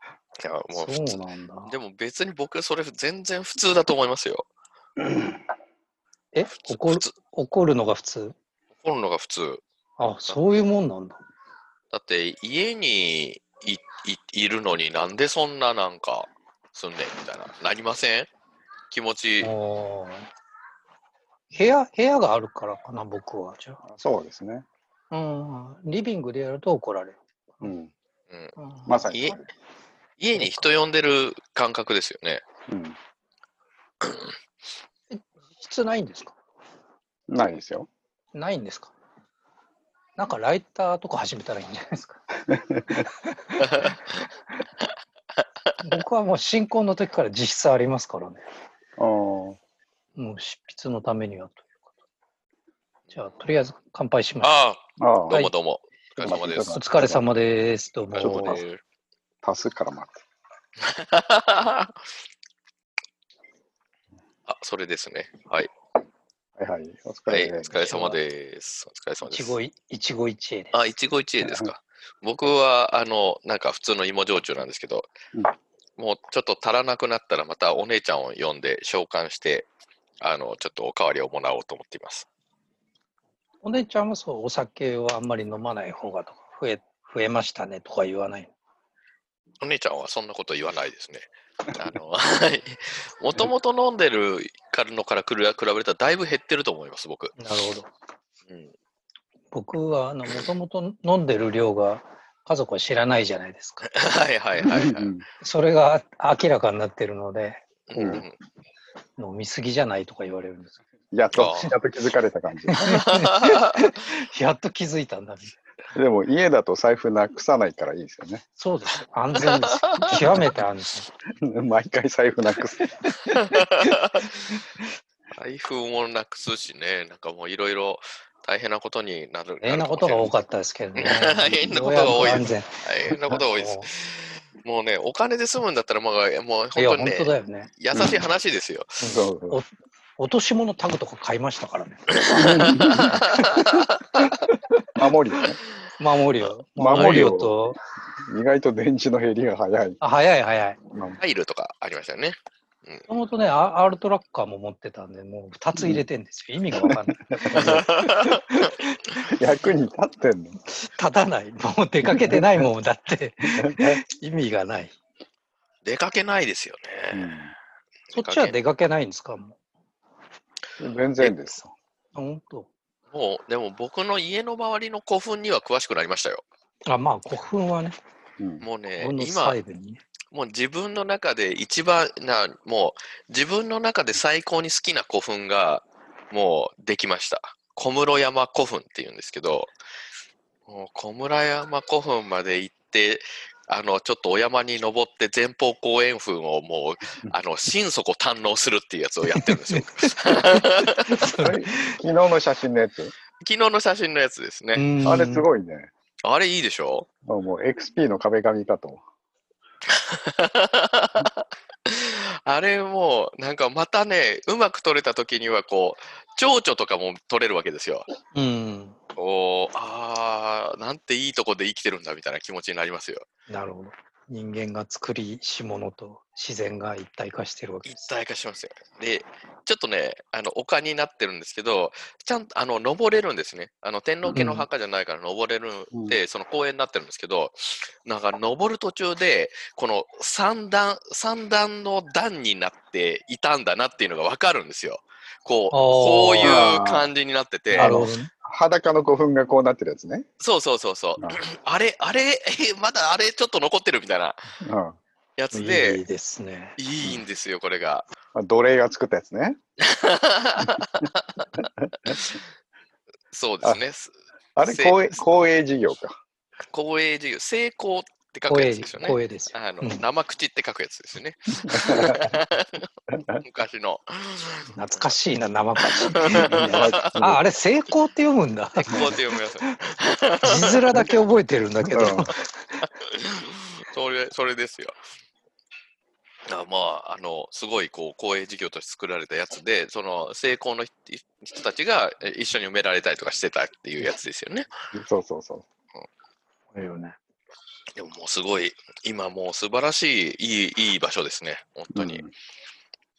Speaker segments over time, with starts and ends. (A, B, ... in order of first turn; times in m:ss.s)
0:00.4-0:04.5 A
0:00.7-0:01.7 B
0:06.3-0:08.4 B
0:06.5-0:07.1 A
0:08.8-0:09.6 A
0:10.0-0:11.2 B
0:11.9-0:18.3 A
0:18.9-0:19.5 A
0:19.4-0:20.3 B
0:21.5-0:23.8 B
0:23.9-0:24.7 C
0:25.1-0:27.7 B
0:27.6-0:27.9 C
0:28.6-0:29.0 B
0:28.9-0:29.4 C
0:29.1-0:29.4 A
0:30.2-0:32.4 A
0:30.3-0:30.7 B
0:32.7-0:33.0 C
0:35.1-0:36.4 B
0:37.3-0:37.9 C
0:38.3-0:38.9 B
0:40.2-0:42.2 B
0:42.5-0:43.1 C
0:43.3-0:43.9 B
0:43.6-0:43.9 A
0:45.8-0:48.4 B
0:49.0-0:49.6 C
0:50.2-0:51.8 B
0:53.1-0:54.5 B
0:54.4-0:56.8 A
0:55.0-0:55.4 C
0:56.2-0:57.2 C
0:56.3-0:58.6 B
0:58.1-0:58.8 A
0:58.2-0:58.6 C
0:59.4-1:00.2 C
1:00.8-1:01.9 A
1:04.5-1:05.7 A
1:06.6-1:08.1 C
1:07.3-1:09.6 A
1:07.7-1:08.1 B
1:09.2-1:10.8 B
1:10.7-1:15.1 A
1:11.4-1:11.7 C
1:16.0-1:19.7 A
1:20.2-1:22.3 A
1:23.6-1:28.5 B
1:29.6-1:37.4 A
1:37.4-1:37.9 B
1:38.5-1:38.7 A
1:39.5-1:43.9 B
1:43.8-1:45.2 A
1:44.6-1:45.2 C
1:45.4-1:48.2 B
1:47.9-1:48.4 A
1:48.0-1:48.2 C
1:49.2-1:50.8 B
1:51.1-1:52.8 C
1:51.3-1:51.7 A
1:51.3-1:51.7 B
1:52.7-1:55.6 B
1:52.7-1:53.8 A
1:56.0-1:58.4 C
1:58.6-2:01.1 B
1:59.4-2:00.5 C
1:59.4-2:00.2 A
2:01.4-2:03.6 C
2:03.4-2:04.5 A
2:05.3-2:10.4 A
2:09.6-2:13.9 B
2:11.0-2:19.0 A
2:16.8-2:17.7 B
2:17.9-2:18.2 C
2:19.0-2:23.6 B
2:19.1-2:19.6 C
2:22.2-2:24.3 A
2:22.3-2:23.4 C
2:24.9-2:25.6 C
2:26.0-2:27.8 B
2:26.8-2:27.6 C
2:26.9-2:27.3 A
2:28.2-2:30.0 C
2:30.0-2:30.8 B
2:30.9-2:31.2 C
2:31.2-2:33.1 A
2:33.1-2:37.9 B
2:35.8-2:36.0 C
2:36.8-2:38.4 C
2:37.5-2:38.7 A
2:39.2-2:40.6 C
2:40.7-2:45.0 B
2:42.1-2:42.6 C
2:43.5-2:44.0 C
2:45.8-2:47.4 A
2:47.1-2:47.5 C
2:48.1-2:48.5 A
2:48.1-2:49.6 B
2:50.8-2:51.7 C
2:52.1-2:52.7 B
2:53.1-2:56.4 A
2:56.9-2:58.0 B
2:58.4-2:58.6 C
2:58.6-2:59.6 A
2:59.0-3:00.0 B
3:00.3-3:09.7 A
3:10.7-3:21.2 A
3:19.3-3:22.0 B
3:21.4-3:23.1 C
3:23.4-3:24.9 A
3:24.7-3:25.4 B
3:25.0-3:25.9 C
3:26.2-3:27.1 A
3:27.2-3:29.0 C
3:29.9-3:38.1 A
3:38.3-3:39.0 B
3:39.2-3:43.2 A
3:43.5-3:48.1 B
3:47.9-4:08.1 A
3:54.3-3:54.7 B
3:55.9-3:56.2 C
4:05.7-4:06.7 B
4:06.4-4:07.1 C
4:07.7-4:10.3 C
4:07.8-4:08.3 B
4:10.4-4:14.4 A
4:14.6-4:15.0 C
4:15.4-4:16.0 A
4:15.5-4:16.8 B
4:16.8-4:18.1 A
4:18.4-4:19.6 C
4:19.8-4:22.4 A
4:23.3-4:25.2 A
4:24.6-4:26.2 C
4:26.7-4:34.7 A
4:28.5-4:30.0 B
4:31.7-4:32.3 C
4:34.8-4:39.2 B
4:35.8-4:37.2 A
4:36.4-4:37.4 C
4:38.8-4:41.2 A
4:40.4-4:42.5 B
4:41.9-4:42.3 C
4:43.1-4:45.0 A
4:46.5-4:54.7 A
4:54.9-4:55.6 C
4:56.7-4:57.2 B
4:57.9-5:02.2 A
5:01.9-5:02.3 C